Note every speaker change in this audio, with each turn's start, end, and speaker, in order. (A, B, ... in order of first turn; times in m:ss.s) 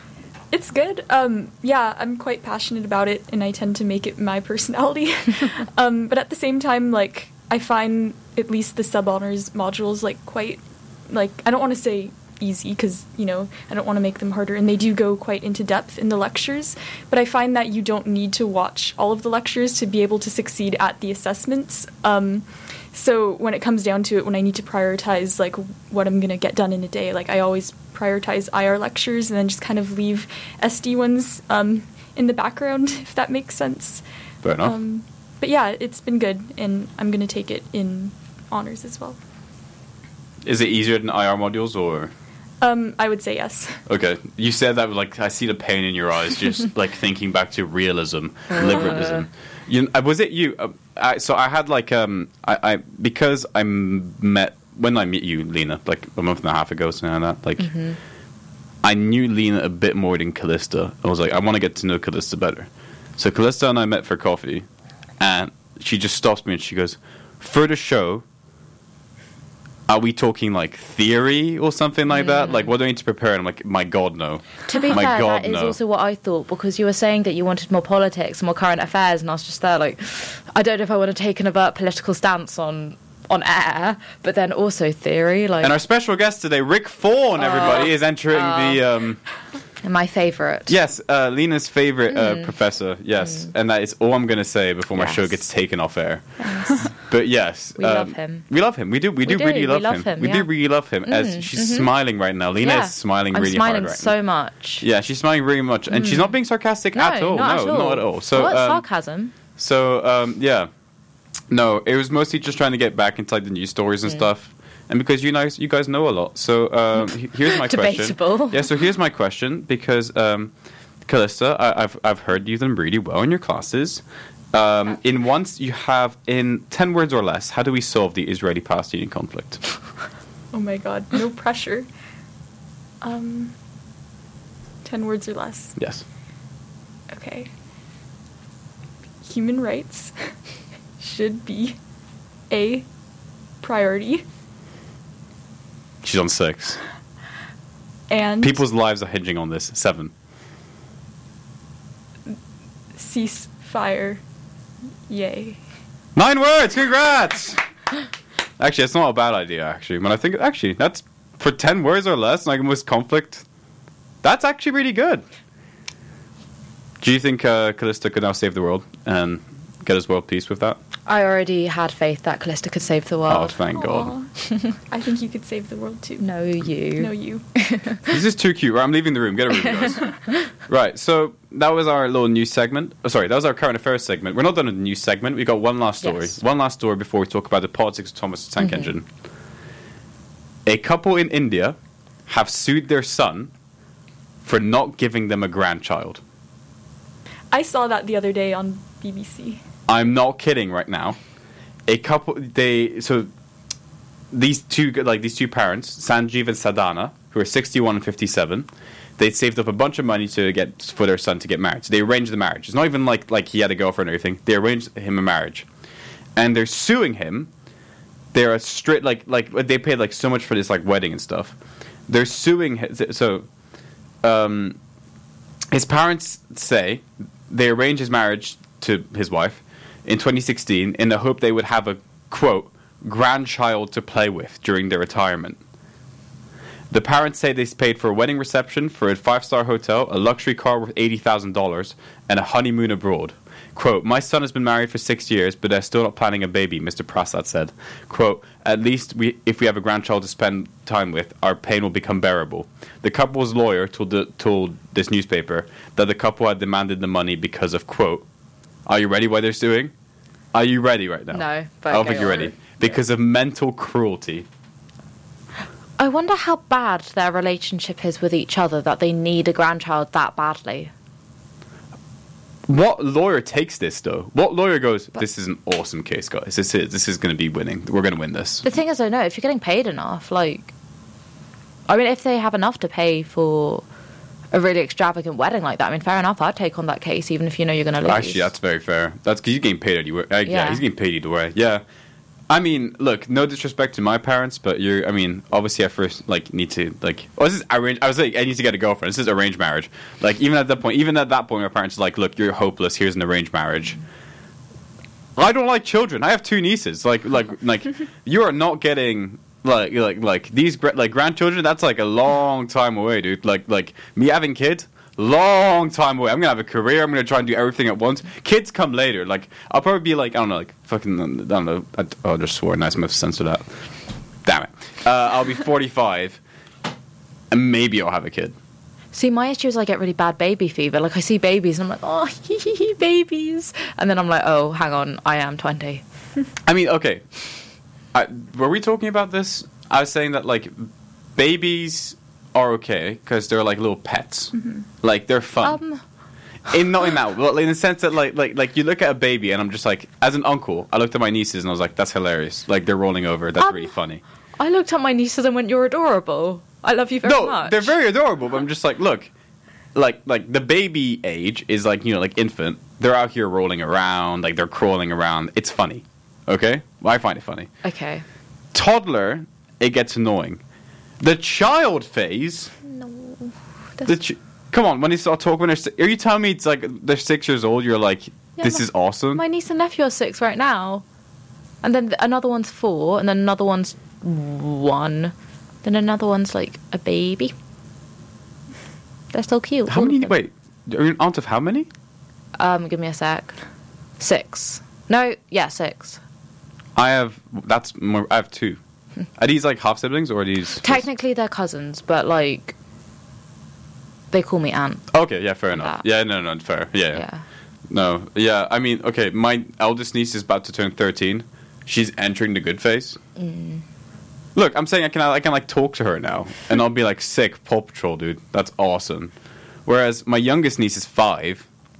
0:00.5-0:34.0 A
0:34.4-0:34.7 B
0:34.6-0:39.2 A
0:40.4-0:42.1 B
0:42.6-0:43.8 A
0:43.9-0:57.7 B
0:48.5-0:49.2 C
0:57.6-0:58.0 C
0:58.8-1:04.6 B
1:05.2-1:08.2 B
1:09.9-1:15.8 B
1:12.1-1:12.7 C
1:14.7-1:25.7 C
1:25.6-1:29.2 B
1:27.4-1:28.8 C
1:29.8-1:30.7 C
1:30.7-1:44.1 B
1:32.1-1:32.5 C
1:33.2-1:33.5 C
1:34.9-1:35.4 C
1:36.4-1:37.1 C
1:37.8-1:38.5 C
1:39.2-1:40.5 C
1:41.0-1:41.9 C
1:42.6-1:44.8 C
1:44.8-1:48.8 B
1:45.9-1:46.3 C
1:46.9-1:49.3 C
1:49.5-1:50.7 B
1:51.5-2:00.5 B
1:57.4-1:58.6 C
2:01.0-2:09.6 B
2:10.5-2:11.9 A
2:13.0-2:13.5 A
2:14.8-2:15.8 A
2:15.8-2:16.0 B
2:17.1-2:17.5 A
2:19.2-2:20.4 A
2:21.0-2:21.8 A
2:22.5-2:22.9 A
2:23.6-2:24.2 A
2:26.0-2:26.8 B
2:28.1-2:28.6 A
2:28.4-2:30.1 B
2:33.0-2:34.2 A
2:35.1-2:35.6 A
2:36.2-2:37.6 B
2:38.6-2:43.4 B
2:44.2-2:45.2 B
2:47.0-2:50.8 B
2:51.1-2:53.6 C
2:53.3-2:54.1 B
2:53.7-2:56.3 A
2:54.4-2:54.7 C
2:56.2-2:58.1 C
2:57.0-2:57.4 A
2:58.1-3:09.0 B
3:06.0-3:06.4 C
3:08.6-3:08.9 C
3:10.6-3:11.8 B
3:12.3-3:13.5 B
3:14.4-3:16.2 B
3:17.5-3:19.6 A
3:19.9-3:21.2 B
3:21.9-3:23.3 B
3:24.3-3:35.7 B
3:36.4-3:37.5 B
3:38.3-3:41.5 B
3:42.1-3:43.4 B
3:44.2-3:44.8 B
3:45.7-3:55.6 B
3:56.9-4:18.2 B
4:18.8-4:19.9 B
4:20.5-4:24.4 B
4:21.3-4:22.8 C
4:26.0-4:30.9 C
4:32.7-4:38.6 B
4:38.6-4:40.7 C
4:41.9-4:43.8 C
4:44.5-4:48.4 C
4:48.0-4:51.8 B
4:50.4-4:50.8 C
4:52.5-5:04.0 B
5:05.4-5:23.7 B
5:24.4-5:26.4 B
5:27.5-5:28.5 B
5:29.1-5:36.0 C
5:36.6-5:37.5 B
5:38.1-5:45.8 B
5:44.5-5:44.8 A
5:45.6-5:46.0 C
5:46.7-5:54.2 B
5:53.6-5:53.9 C
5:54.6-5:57.9 C
5:57.2-5:59.3 B
5:59.9-6:07.7 B
6:07.8-6:08.2 C
6:08.7-6:10.6 B
6:11.2-6:12.7 B
6:12.9-6:14.1 C
6:14.0-6:19.4 B
6:18.6-6:21.0 C
6:21.8-6:27.5 C
6:29.3-6:30.3 C
6:29.9-6:31.9 B
6:32.6-6:33.6 C
6:34.2-6:36.2 C
6:37.0-6:38.8 B
6:39.4-6:41.0 B
6:40.8-6:42.7 C
6:44.3-6:45.1 C
6:45.1-6:47.2 B
6:45.7-6:46.0 C
6:47.1-6:47.4 C
6:47.9-6:53.2 B
6:53.4-6:53.8 C
6:54.5-6:59.3 B
6:59.8-7:01.6 B